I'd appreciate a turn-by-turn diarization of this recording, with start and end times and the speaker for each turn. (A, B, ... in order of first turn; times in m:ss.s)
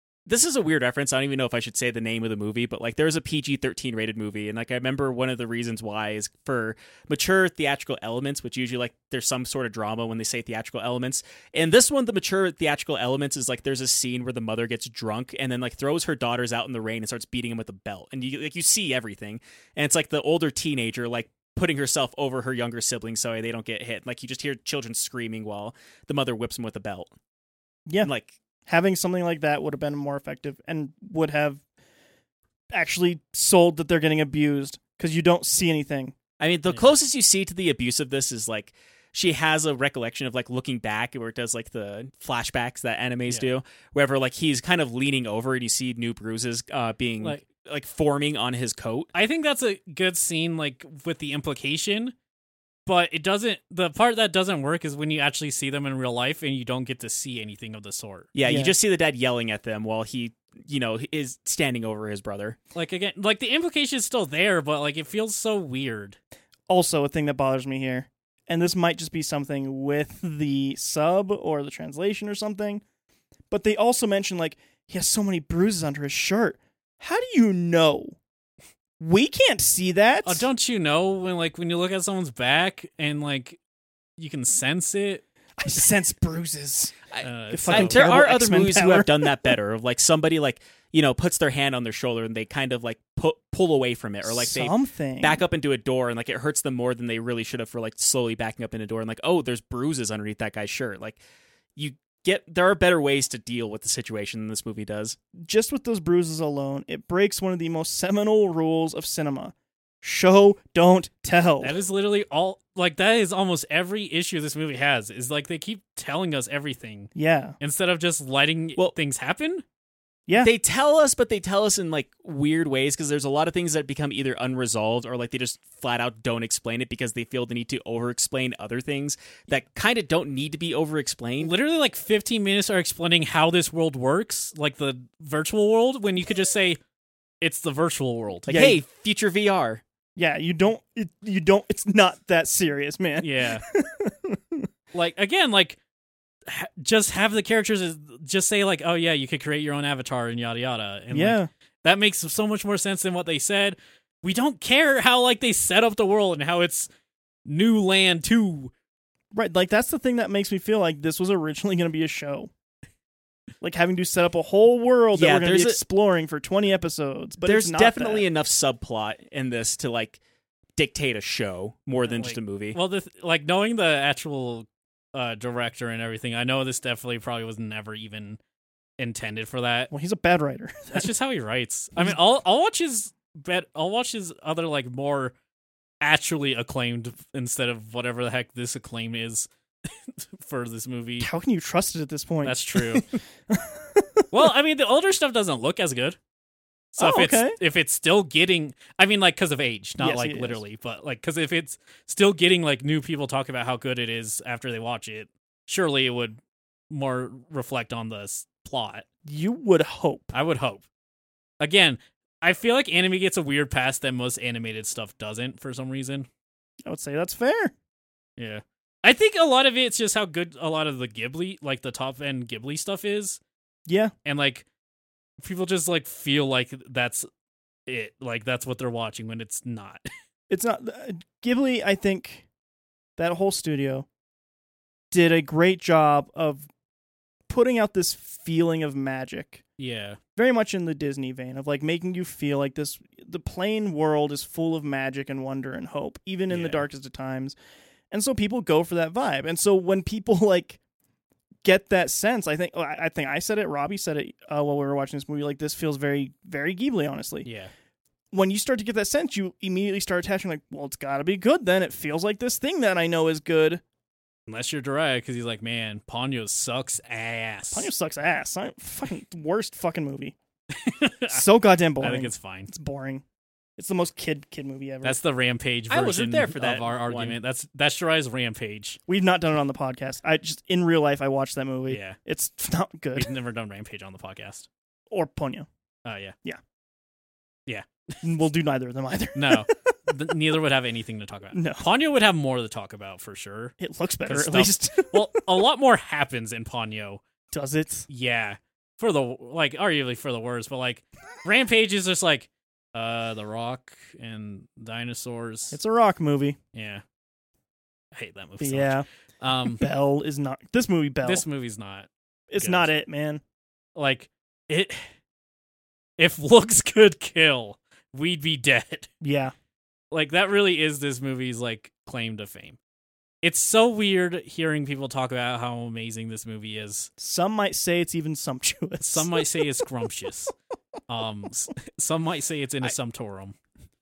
0:00.2-0:27.1 A
0:28.0-0:28.4 A
0:28.7-0:31.6 B
0:32.7-0:36.2 B
0:36.4-0:49.1 A
0:49.1-0:52.1 C
0:52.8-0:58.3 C
0:58.3-1:02.6 A
0:58.4-0:58.7 B
1:02.7-1:06.2 C
1:06.7-1:12.8 B
1:13.5-1:18.2 B
1:19.0-1:20.5 B
1:20.2-1:23.6 C
1:24.2-1:25.2 C
1:25.6-1:26.9 B
1:27.1-1:41.2 A
1:27.2-1:28.0 C
1:27.5-1:29.5 B
1:34.2-1:35.4 B
1:41.8-1:45.2 A
1:45.4-1:51.8 B
1:51.6-1:59.6 C
1:57.1-1:57.6 B
2:00.4-2:11.5 A
2:11.4-2:16.8 C
2:17.4-2:18.5 C
2:18.5-2:18.8 B
2:18.5-2:19.8 A
2:20.2-2:24.7 B
2:23.2-2:23.6 C
2:24.9-2:25.8 C
2:26.5-2:36.9 C
2:31.1-2:31.5 B
2:37.4-2:38.7 C
2:39.3-2:42.5 B
2:43.6-2:48.2 B
2:45.1-2:45.8 A
2:47.4-2:50.2 A
2:50.8-2:52.8 A
2:52.1-2:58.4 C
2:59.0-2:59.9 C
2:59.9-3:01.1 B
3:00.9-3:05.3 C
3:06.0-3:11.3 C
3:11.2-3:14.4 B
3:12.4-3:13.1 C
3:14.3-3:16.2 C
3:16.9-3:26.4 C
3:17.0-3:17.6 B
3:20.0-3:20.6 B
3:26.9-3:29.0 C
3:29.2-3:30.3 B
3:30.3-3:30.8 C
3:31.6-3:36.3 C
3:36.8-3:37.7 B
3:38.4-3:43.4 C
3:43.9-3:44.1 B
3:44.2-3:44.6 C
3:45.4-3:47.3 C
3:47.8-3:50.1 C
3:50.5-3:52.4 B
3:53.2-3:54.0 B
3:55.1-3:56.7 B
3:57.5-3:59.6 B
3:59.8-4:00.2 C
4:00.4-4:07.5 B
4:06.5-4:06.8 C
4:08.1-4:10.8 B
4:11.6-4:17.5 B
4:17.4-4:17.7 C
4:18.3-4:23.8 B
4:24.5-4:27.9 C
4:27.7-4:30.3 B
4:30.7-4:31.4 C
4:31.3-4:33.2 B
4:32.0-4:32.7 C
4:33.8-4:35.2 B
4:35.0-4:39.0 C
4:35.9-4:37.4 A
4:39.1-4:43.3 B
4:41.9-4:42.2 C
4:43.1-4:44.7 C
4:45.1-4:45.7 B
4:46.0-4:46.3 C
4:47.7-4:48.2 C
4:48.2-4:50.0 B
4:49.3-4:53.7 C
4:51.5-4:51.8 B
4:53.8-4:55.4 B
4:54.2-4:57.2 C
4:57.5-4:58.1 B
4:58.1-5:05.8 C
5:05.7-5:06.6 B
5:06.7-5:07.0 C
5:08.1-5:09.8 C
5:08.6-5:09.0 B
5:09.8-5:11.4 B
5:11.2-5:12.9 C
5:12.5-5:13.4 B
5:14.0-5:15.0 C
5:16.2-5:19.1 C
5:19.2-5:19.5 B
5:20.1-5:22.8 C
5:23.4-5:27.1 C
5:27.2-5:29.7 B
5:29.0-5:30.5 C
5:31.1-5:33.5 C